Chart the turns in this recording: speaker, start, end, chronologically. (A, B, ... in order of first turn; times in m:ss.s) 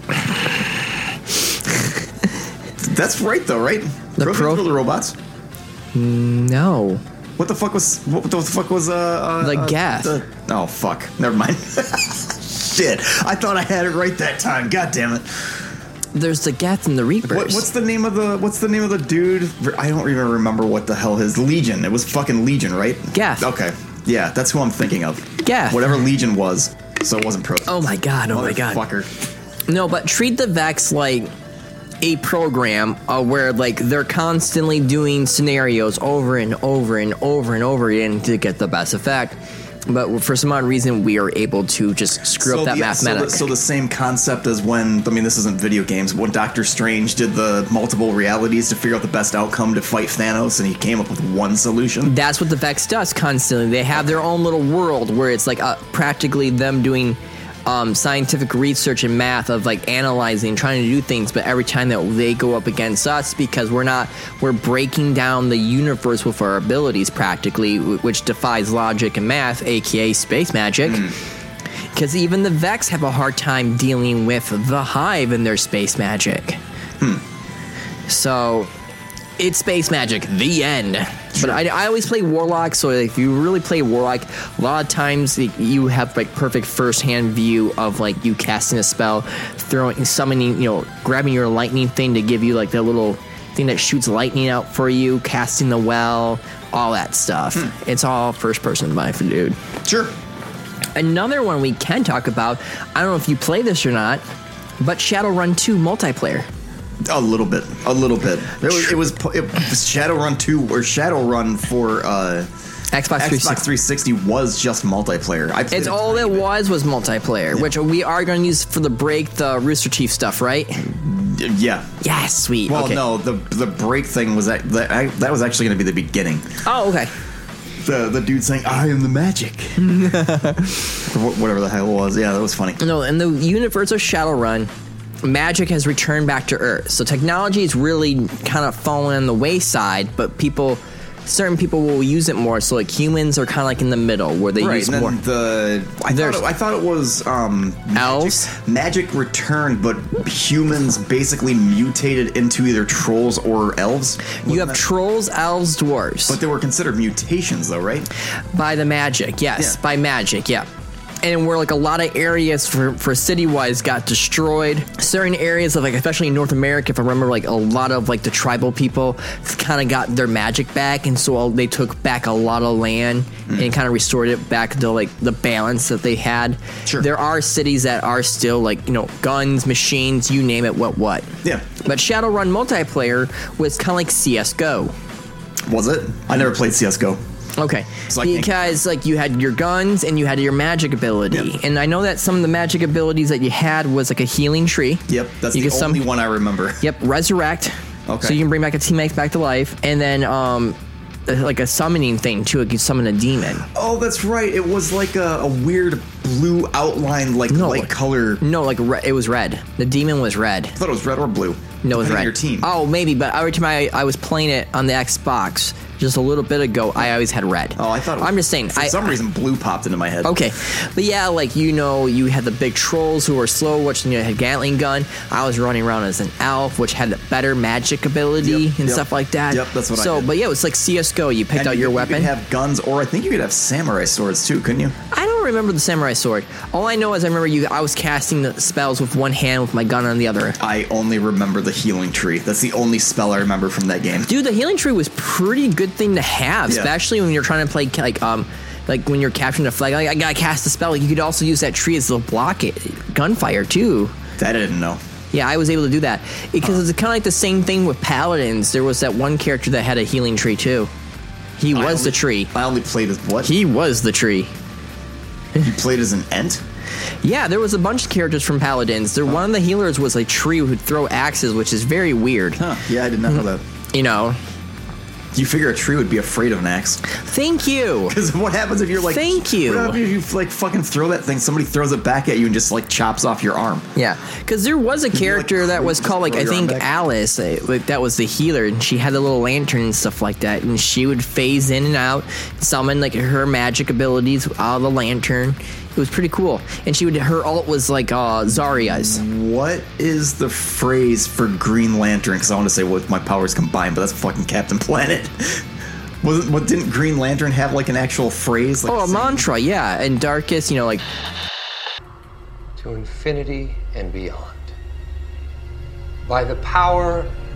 0:02.8-0:05.2 A
0:04.2-0:04.7 B
0:05.9-0:07.0 B
0:07.4-0:15.6 A
0:09.4-0:10.2 B
0:16.1-0:17.6 B
0:17.2-0:29.1 A
0:23.1-0:23.5 B
0:25.4-0:25.9 B
0:27.7-0:28.8 B
0:29.7-0:31.3 B
0:32.0-0:43.5 B
0:42.4-0:52.1 A
0:52.0-1:11.1 B
0:53.9-0:54.2 A
1:10.8-1:11.1 A
1:11.9-1:16.6 B
1:18.1-1:18.7 B
1:19.4-1:39.6 B
1:21.3-1:21.6 A
1:39.8-1:40.1 A
1:40.9-1:44.2 B
1:44.8-1:46.5 B
1:47.0-1:52.5 A
1:52.9-1:53.6 B
1:53.2-1:56.5 A
1:55.7-2:00.8 B
2:00.8-2:01.9 A
2:02.0-2:03.0 B
2:02.7-2:06.5 A
2:06.6-2:07.1 B
2:07.8-2:10.2 A
2:09.8-2:10.8 B
2:11.0-2:12.8 A
2:12.8-2:14.7 B
2:15.2-2:25.2 B
2:24.6-2:34.8 A
2:26.1-2:26.4 B
2:27.9-2:28.5 B
2:34.4-2:36.4 B
2:36.3-2:38.1 A
2:38.5-2:40.7 B
2:41.2-3:01.3 B
3:01.8-3:04.9 B
3:05.6-3:07.2 A
3:07.6-3:16.0 B
3:08.1-3:08.8 A
3:15.1-3:16.8 A
3:16.8-3:23.6 B
3:18.1-3:18.4 A
3:23.7-3:28.4 A
3:27.5-3:30.8 B
3:30.8-3:32.7 A
3:31.8-3:39.2 B
3:37.8-3:40.3 A
3:40.2-3:52.3 B
3:48.4-3:50.3 A
3:51.5-3:55.0 A
3:55.1-4:00.6 B
4:00.6-4:04.3 A
4:04.3-4:14.1 B
4:06.7-4:06.9 A
4:14.4-4:15.0 A
4:15.3-4:20.9 B
4:21.6-4:22.5 B
4:21.7-4:23.5 A
4:23.4-4:24.5 B
4:25.6-4:26.6 A
4:27.2-4:32.6 B
4:32.6-4:33.6 A
4:33.9-4:34.4 B
4:35.3-4:37.0 A
4:37.0-4:38.2 B
4:38.1-4:43.9 A
4:39.0-4:40.0 B
4:44.0-4:59.2 B
4:45.1-4:46.9 A
4:58.8-5:05.6 A
5:06.2-5:09.5 A
5:08.9-5:11.0 B
5:12.8-5:14.7 C
5:16.2-5:17.3 C